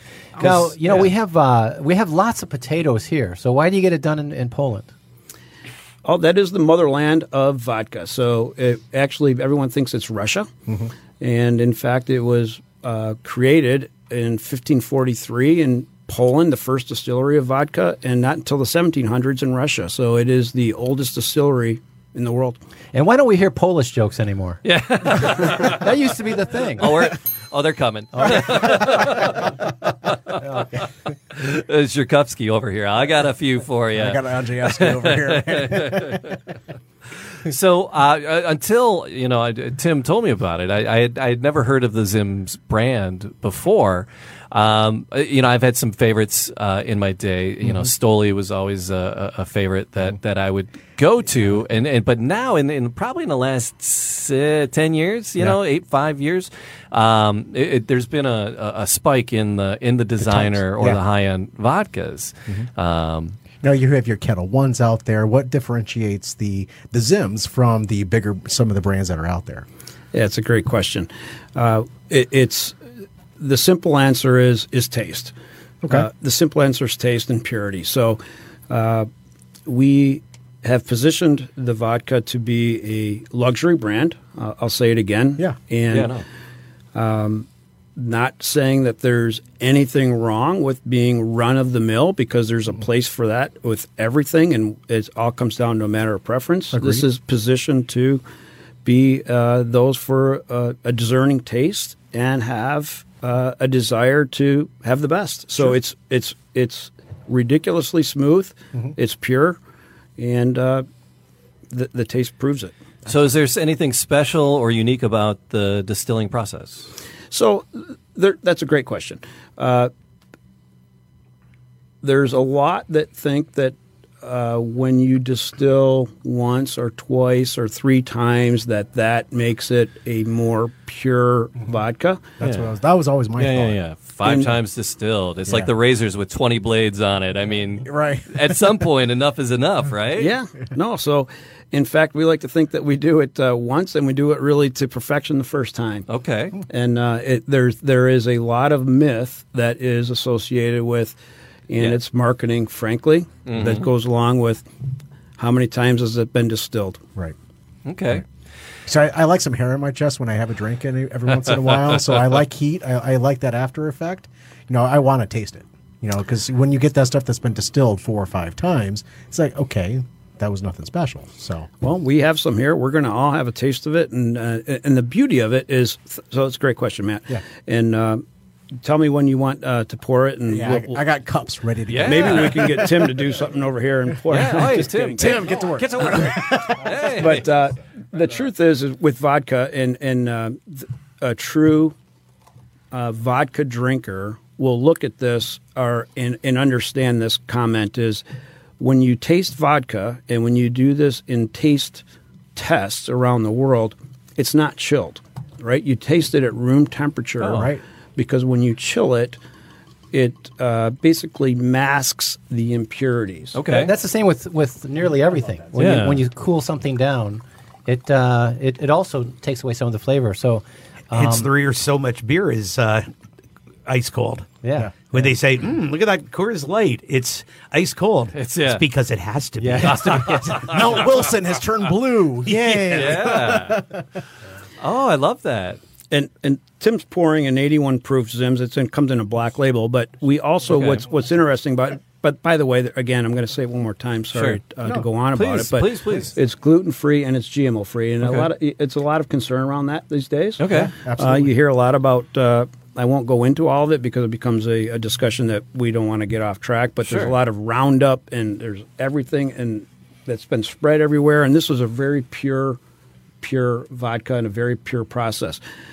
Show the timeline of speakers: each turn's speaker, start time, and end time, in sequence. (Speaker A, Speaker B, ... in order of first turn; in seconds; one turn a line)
Speaker A: 0.4-0.9
Speaker B: 0.4-4.9
Speaker C: 6.0-10.5
Speaker C: 11.2-22.6
Speaker B: 22.9-24.6
Speaker D: 24.6-25.9
Speaker B: 25.2-27.1
Speaker D: 26.8-30.8
Speaker D: 31.3-36.4
Speaker A: 33.9-36.4
Speaker D: 37.4-63.4
Speaker A: 47.6-47.9
Speaker A: 60.2-61.0
Speaker A: 63.6-69.6
Speaker C: 70.1-72.8
Speaker C: 73.4-75.3
Speaker A: 75.8-76.1
Speaker C: 75.9-79.1
Speaker C: 79.7-86.1
Speaker D: 85.9-86.2
Speaker C: 86.9-98.2
Speaker A: 96.7-97.0
Speaker C: 98.8-109.6
Speaker C: 110.2-110.9
Speaker C: 111.7-112.8
Speaker D: 113.0-116.9
Speaker C: 117.3-119.9
Speaker C: 122.0-132.2
Speaker A: 132.4-133.8
Speaker D: 132.4-132.7
Speaker D: 133.4-140.3
Speaker C: 134.2-134.5
Speaker A: 137.8-138.6
Speaker C: 140.2-146.1
Speaker D: 146.1-146.6
Speaker C: 146.7-151.2
Speaker C: 151.7-154.6
Speaker D: 153.5-153.9
Speaker C: 155.4-157.0
Speaker D: 157.9-158.2
Speaker A: 158.9-171.7
Speaker D: 161.6-162.2
Speaker C: 171.8-178.2
Speaker C: 178.8-181.0
Speaker A: 180.5-183.1
Speaker D: 181.9-182.8
Speaker C: 182.0-186.2
Speaker D: 184.3-187.5
Speaker A: 185.2-186.9
Speaker C: 187.2-191.9
Speaker C: 192.9-198.2
Speaker C: 198.8-209.4
Speaker D: 207.4-207.7
Speaker A: 207.5-207.8
Speaker C: 210.1-213.6
Speaker D: 213.5-213.9
Speaker B: 213.7-221.5
Speaker D: 215.8-216.2
Speaker E: 221.1-223.1
Speaker E: 223.9-231.0
Speaker B: 224.6-225.0
Speaker D: 228.3-228.8
Speaker B: 229.6-230.6
Speaker D: 229.8-231.2
Speaker A: 230.6-234.0
Speaker E: 232.4-233.3
Speaker D: 232.9-233.8
Speaker D: 234.8-235.8
Speaker C: 236.1-262.8
Speaker D: 240.7-241.0
Speaker D: 244.3-244.6
Speaker D: 245.3-246.3
Speaker D: 248.2-248.5
Speaker D: 250.6-250.9
Speaker A: 250.8-251.5
Speaker D: 257.0-257.3
Speaker C: 263.4-265.6